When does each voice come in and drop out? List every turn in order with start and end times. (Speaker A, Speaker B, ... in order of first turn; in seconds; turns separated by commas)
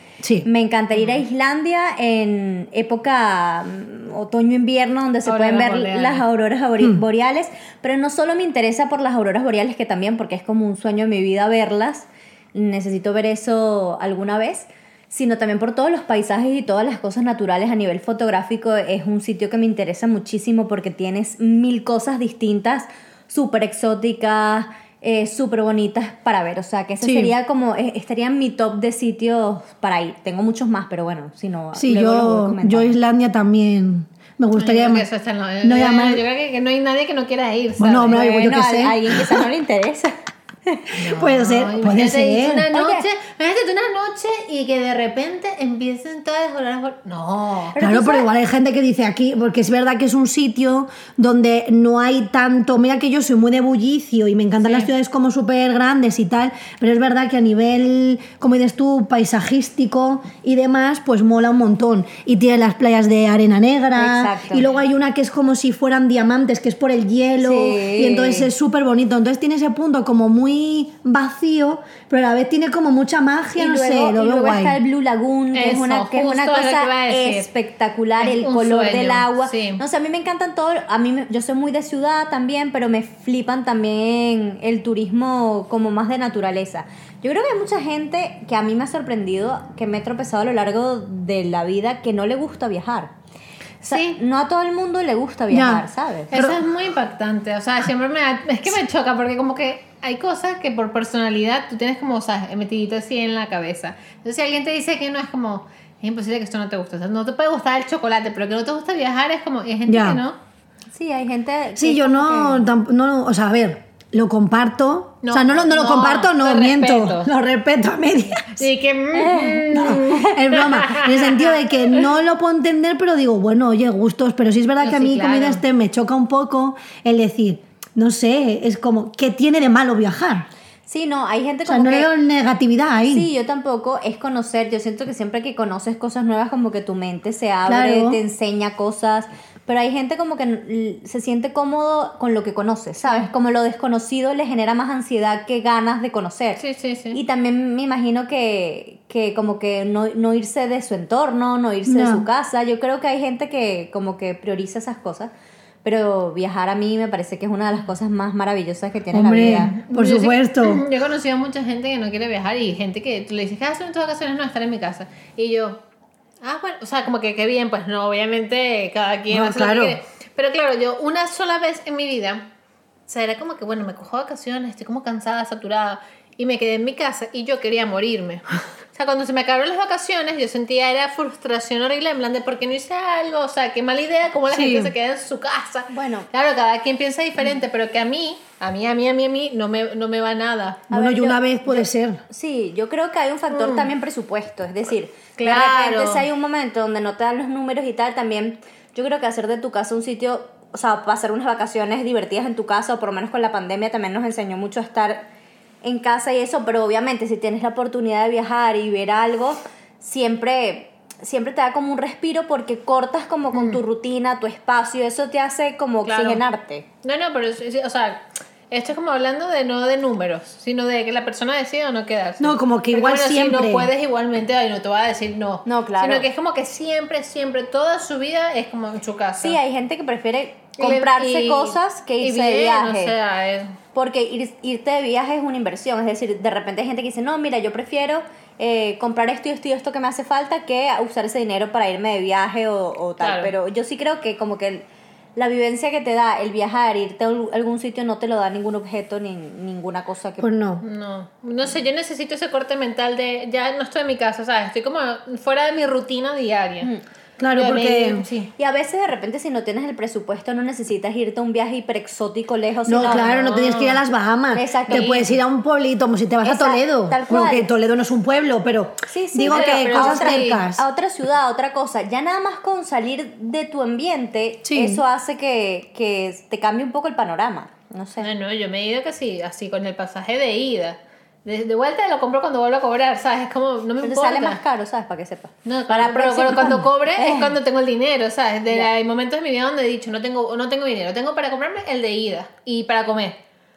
Speaker A: 0.2-0.5, Speaker B: 0.5-33.0, Speaker C: 5.3-6.3, Speaker A: 27.0-27.3, Speaker A: 31.8-35.1, Speaker C: 34.6-38.1, Speaker A: 35.6-36.2, Speaker A: 37.8-39.5, Speaker B: 38.1-40.9, Speaker C: 41.0-47.8, Speaker A: 41.0-42.7, Speaker B: 42.7-43.1, Speaker B: 47.7-48.3, Speaker A: 47.8-74.8, Speaker C: 54.6-54.9, Speaker B: 64.0-64.7, Speaker B: 67.4-68.5, Speaker B: 73.6-93.1, Speaker C: 75.5-77.5, Speaker C: 78.2-79.8, Speaker B: 93.8-96.3, Speaker C: 93.9-94.2, Speaker A: 95.5-96.6, Speaker C: 96.3-110.4, Speaker A: 109.9-110.2, Speaker B: 110.9-112.7, Speaker A: 111.8-118.7, Speaker C: 115.2-117.3, Speaker C: 118.4-122.0, Speaker B: 119.2-120.3, Speaker A: 119.7-130.5, Speaker C: 124.8-125.6, Speaker B: 130.9-132.1, Speaker A: 131.7-133.3, Speaker B: 133.1-155.3, Speaker A: 137.7-138.2, Speaker C: 146.6-147.2, Speaker A: 151.9-152.3, Speaker B: 155.8-159.8, Speaker A: 159.1-160.9, Speaker C: 159.7-165.8, Speaker C: 166.4-172.5, Speaker A: 169.3-170.0, Speaker C: 173.1-190.9, Speaker A: 184.5-184.9, Speaker B: 185.9-186.3, Speaker B: 190.9-205.3, Speaker A: 190.9-192.2, Speaker C: 193.5-193.9, Speaker C: 195.4-196.2, Speaker B: 205.8-216.9, Speaker C: 213.5-213.8, Speaker C: 216.1-216.4, Speaker C: 217.0-229.6, Speaker A: 222.4-223.9, Speaker B: 225.7-226.3, Speaker B: 229.4-233.2, Speaker C: 230.8-233.8, Speaker B: 233.9-244.8, Speaker C: 243.2-243.5, Speaker B: 245.4-250.5, Speaker A: 250.4-250.8, Speaker C: 250.8-256.9, Speaker A: 257.4-258.3, Speaker C: 257.5-258.5, Speaker B: 258.6-263.4, Speaker A: 262.9-270.8, Speaker C: 263.0-264.0, Speaker B: 264.5-265.2, Speaker C: 264.9-265.3, Speaker B: 266.4-267.7, Speaker B: 269.1-278.3, Speaker C: 269.5-270.6, Speaker A: 274.6-275.0, Speaker C: 278.2-284.6, Speaker B: 284.0-287.6, Speaker C: 285.6-293.4